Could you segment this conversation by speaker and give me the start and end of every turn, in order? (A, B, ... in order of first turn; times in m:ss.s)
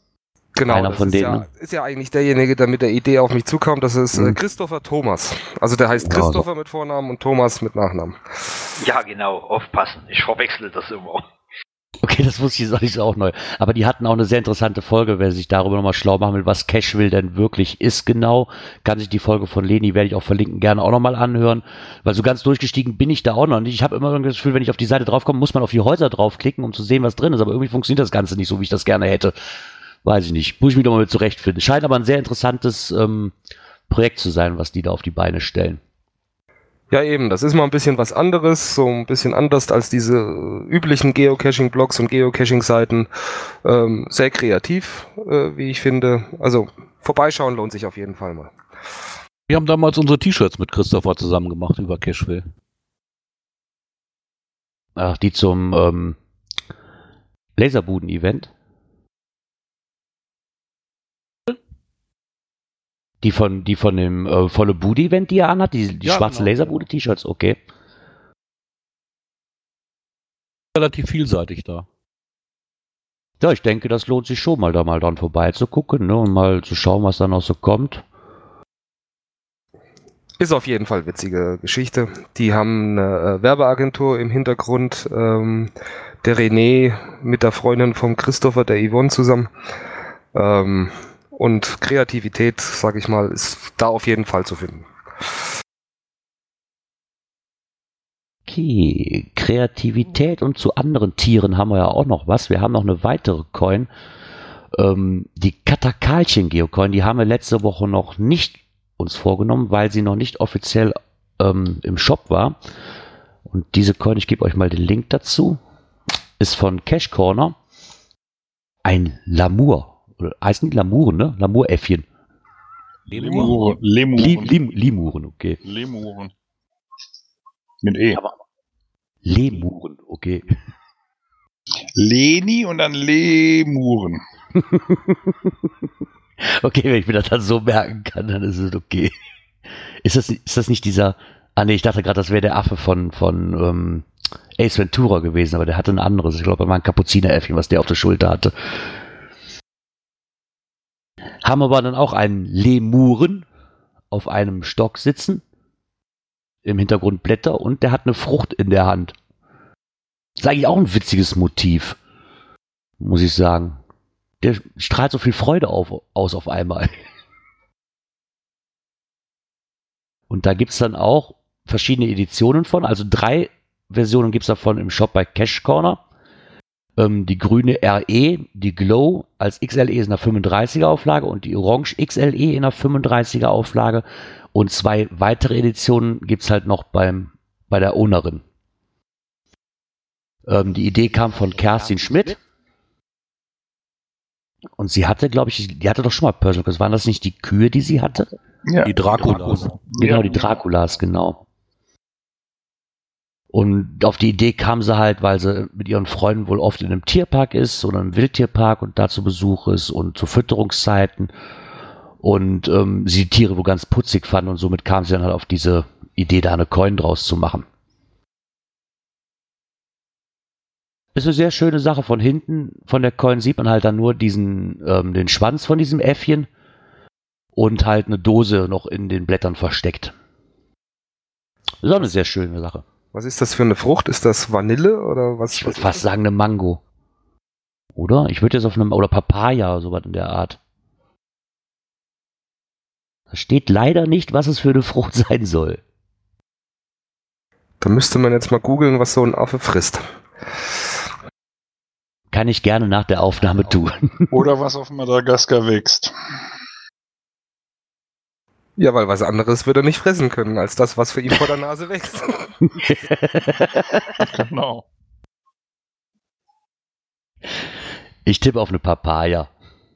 0:00.5-0:08.7 A
0:00.7-0:01.5 B
0:06.0-0:06.4 B
0:08.8-0:11.2 C
0:12.0-0:29.4 B
0:30.0-0:33.3 B
0:33.9-0:35.8 B
0:36.9-0:48.5 A
0:49.5-0:52.4 D
0:55.0-0:56.2 B
0:57.6-0:58.5 B
1:03.2-1:07.6 B
1:06.0-1:06.8 D
1:10.7-1:11.9 D
1:13.4-1:18.0 B
1:20.4-1:25.7 A
1:26.2-1:29.5 A
1:30.3-1:34.9 A
1:38.5-1:43.9 B
1:44.7-1:52.6 B
1:53.5-1:55.6 B
1:56.4-1:57.6 B
1:58.8-2:02.0 B
2:03.1-2:03.7 D
2:03.1-2:04.5 E
2:04.2-2:05.6 B
2:05.6-2:06.3 E
2:07.8-2:08.2 E
2:09.2-2:10.5 B
2:12.0-2:14.2 E
2:14.6-2:15.5 B
2:16.4-2:19.1 B
2:20.0-2:24.1 B
2:24.6-2:28.8 B
2:31.4-2:33.5 B
2:34.1-2:35.4 B
2:36.6-2:39.2 B
2:40.4-2:42.0 B
2:43.0-2:43.8 B
2:44.4-2:47.0 B
2:50.3-2:56.0 B
2:57.0-3:08.4 B
3:10.5-3:12.4 B
3:14.8-3:18.4 B
3:18.6-3:20.4 E
3:18.8-3:19.8 D
3:19.2-3:21.4 B
3:23.5-3:31.3 B
3:32.2-3:37.6 B
3:41.1-3:46.5 B
3:47.6-3:50.1 B
3:51.8-3:52.8 B
3:53.1-3:56.0 A
3:55.5-3:56.8 B
3:58.0-4:00.6 B
4:03.3-4:05.8 B
4:07.8-4:10.1 A
4:12.3-4:14.3 B
4:14.3-4:16.1 E
4:18.8-4:22.5 A
4:22.8-4:24.2 B
4:24.2-4:24.9 E
4:28.2-4:29.5 B